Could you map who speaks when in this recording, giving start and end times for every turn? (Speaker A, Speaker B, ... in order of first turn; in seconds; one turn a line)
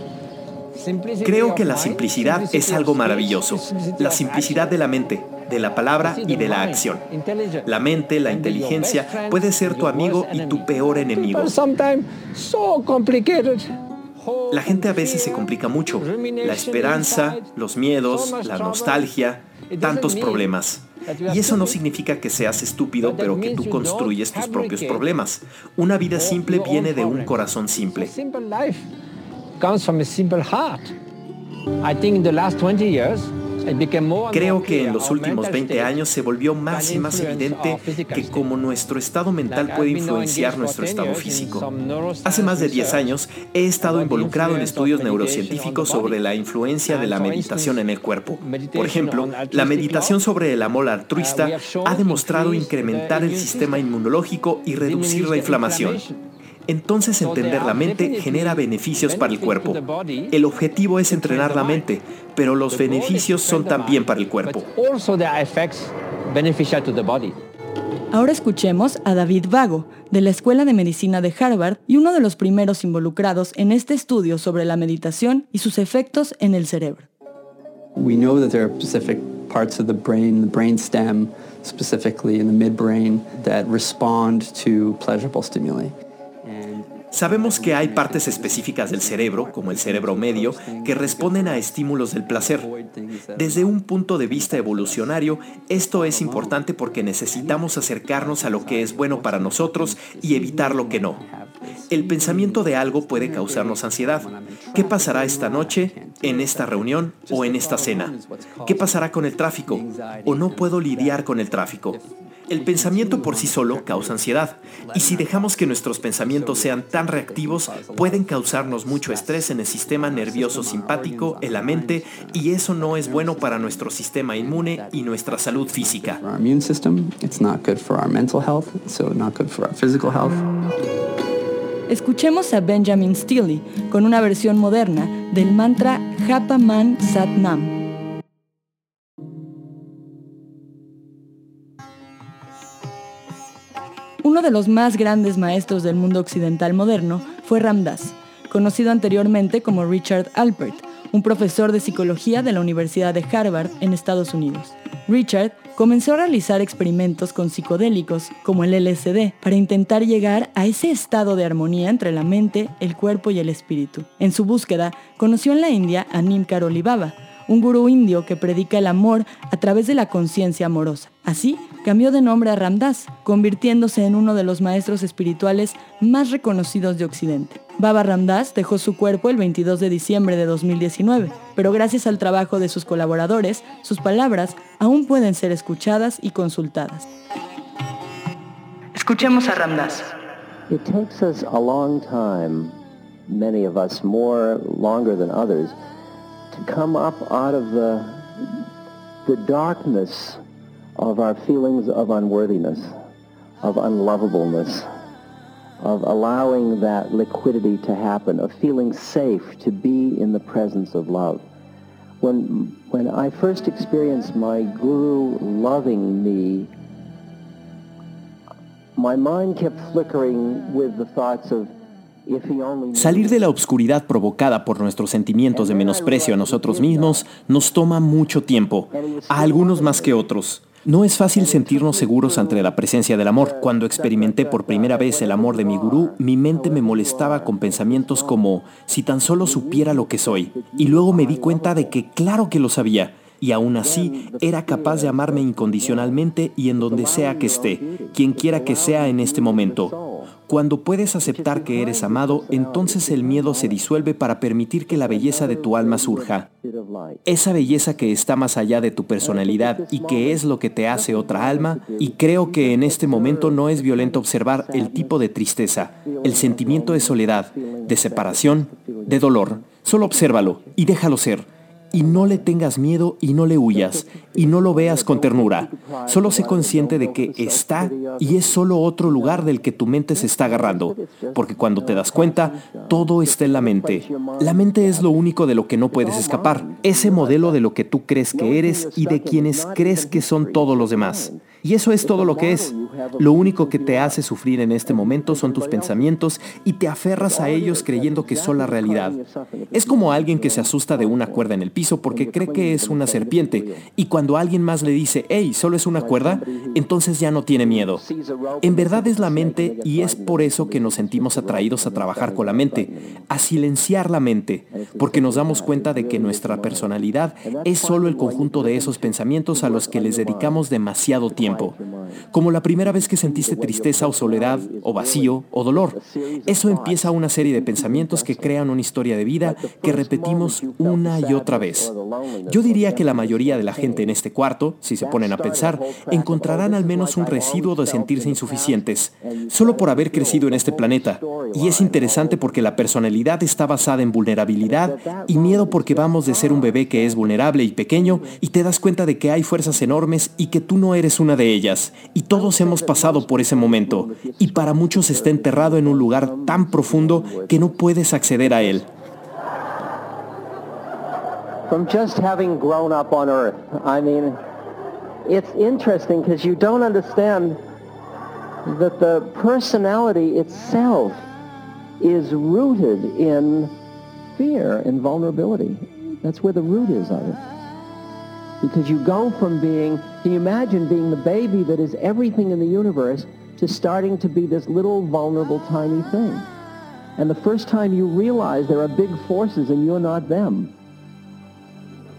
Speaker A: 0.7-4.8
Speaker B: 1.2-7.0
Speaker A: 6.0-7.7
Speaker B: 7.6-11.5
Speaker A: 8.2-17.5
Speaker B: 14.5-28.1
Speaker A: 18.0-19.1
Speaker A: 19.7-20.5
Speaker A: 21.1-21.8
Speaker A: 23.0-25.1
Speaker A: 26.1-28.9
Speaker A: 29.6-30.9
Speaker A: 31.8-35.9
Speaker B: 34.3-41.7
Speaker A: 36.7-38.5
Speaker A: 39.5-43.0
Speaker B: 42.2-56.0
Speaker A: 43.8-46.2
Speaker A: 46.8-50.2
Speaker A: 51.1-53.9
Speaker A: 54.8-56.2
Speaker B: 56.7-64.7
Speaker A: 57.2-60.4
Speaker A: 61.1-61.9
Speaker A: 62.7-67.4
Speaker C: 68.1-77.1
Speaker D: 78.0-130.7
Speaker B: 87.1-92.7
Speaker B: 93.3-101.2
Speaker B: 101.9-126.2
Speaker C: 131.9-137.8
Speaker C: 144.2-187.1
Speaker C: 188.9-190.1
Speaker E: 190.7-192.8
Speaker E: 193.3-195.8
Speaker E: 196.5-198.5
Speaker E: 199.2-200.4
Speaker E: 201.0-202.9
Speaker E: 203.6-204.9
Speaker E: 205.8-211.4
Speaker E: 212.2-216.7
Speaker E: 218.9-221.7
Speaker E: 222.2-223.4
Speaker B: 222.9-249.9
Speaker E: 225.5-227.3
Speaker E: 228.9-230.2
Speaker E: 231.2-232.8
Speaker E: 233.3-238.5
Speaker E: 239.4-241.9
Speaker E: 243.8-246.2
Speaker E: 246.8-250.3
Speaker B: 250.5-256.5
Speaker E: 251.1-253.8
Speaker E: 254.9-258.2
Speaker B: 257.2-299.2
Speaker E: 259.2-270.8
Speaker E: 271.9-272.5
Speaker E: 273.7-279.6
Speaker E: 280.1-285.2
Speaker E: 285.9-287.6
Speaker E: 288.3-294.2
Speaker E: 294.9-296.1
Speaker E: 297.1-301.5
Speaker B: 299.7-308.0
Speaker E: 302.1-303.9
Speaker E: 306.0-306.9
Speaker E: 307.5-313.2
Speaker B: 308.6-321.7
Speaker E: 314.7-320.6
Speaker E: 321.3-322.3
Speaker B: 322.3-331.9
Speaker E: 322.8-328.6
Speaker E: 329.4-334.1
Speaker B: 332.5-358.9
Speaker E: 335.0-342.9
Speaker E: 344.6-348.4
Speaker E: 352.3-358.8
Speaker E: 361.7-364.4
Speaker E: 365.2-367.6
Speaker E: 368.6-371.2
Speaker E: 372.0-373.8
Speaker E: 374.3-377.4
Speaker E: 378.6-386.5
Speaker E: 387.2-390.7